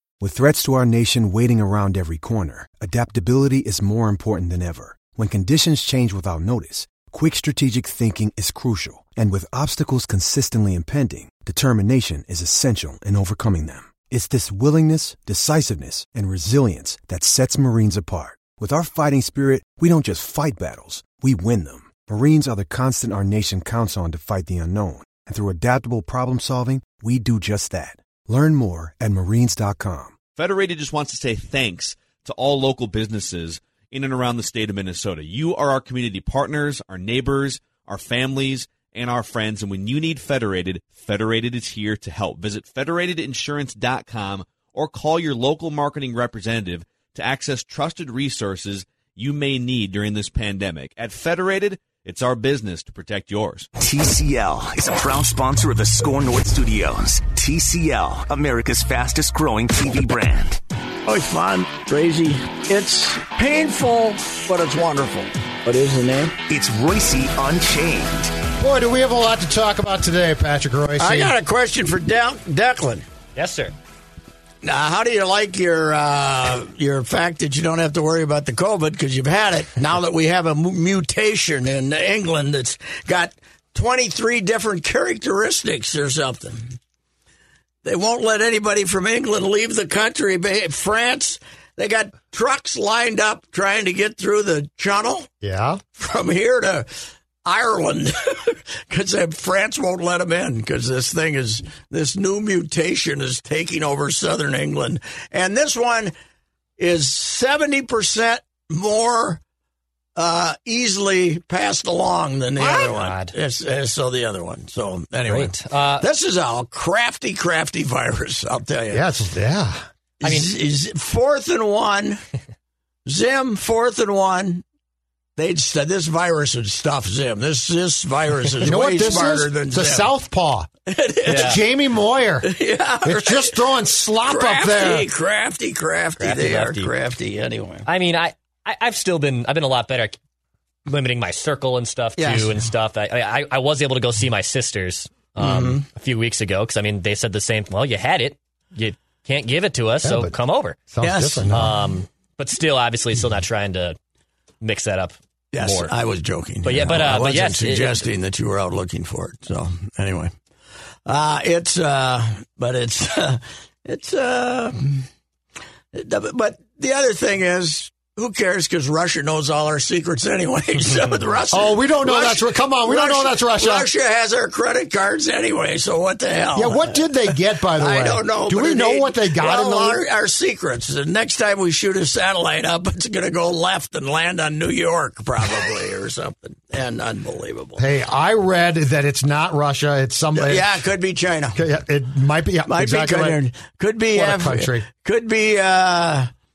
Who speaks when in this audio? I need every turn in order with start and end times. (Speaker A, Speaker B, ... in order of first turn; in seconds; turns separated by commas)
Speaker A: 0.2-30.1, Speaker B: 30.4-53.7, Speaker C: 53.8-60.6, Speaker D: 61.0-66.4, Speaker C: 66.5-68.3, Speaker E: 68.6-71.3, Speaker D: 71.0-73.0, Speaker F: 73.3-73.7, Speaker D: 74.6-86.8, Speaker D: 87.8-95.3, Speaker E: 95.4-95.8, Speaker D: 96.0-96.9, Speaker D: 97.4-106.1, Speaker D: 106.8-109.4, Speaker D: 110.2-119.0, Speaker F: 112.6-113.3, Speaker F: 115.3-116.1, Speaker E: 118.9-119.9, Speaker D: 120.2-122.2, Speaker F: 120.2-120.5, Speaker D: 123.0-124.6, Speaker D: 125.4-130.1, Speaker E: 128.6-130.7, Speaker D: 130.8-131.6, Speaker F: 131.2-131.6, Speaker E: 131.2-132.5, Speaker D: 132.4-137.9, Speaker E: 133.0-135.1, Speaker F: 136.2-136.9, Speaker F: 137.8-140.2, Speaker F: 140.9-150.9, Speaker D: 142.2-142.5, Speaker D: 145.4-145.9, Speaker E: 150.0-150.3, Speaker E: 150.9-151.8, Speaker D: 151.0-151.6, Speaker F: 151.4-154.0, Speaker F: 154.6-155.9, Speaker D: 155.5-160.3, Speaker F: 156.6-158.1, Speaker D: 161.1-165.1, Speaker D: 165.9-187.8, Speaker E: 171.5-173.9, Speaker E: 176.5-180.0, Speaker E: 187.8-190.7, Speaker D: 190.3-191.6, Speaker E: 191.6-193.4, Speaker D: 192.7-196.3, Speaker E: 194.1-194.8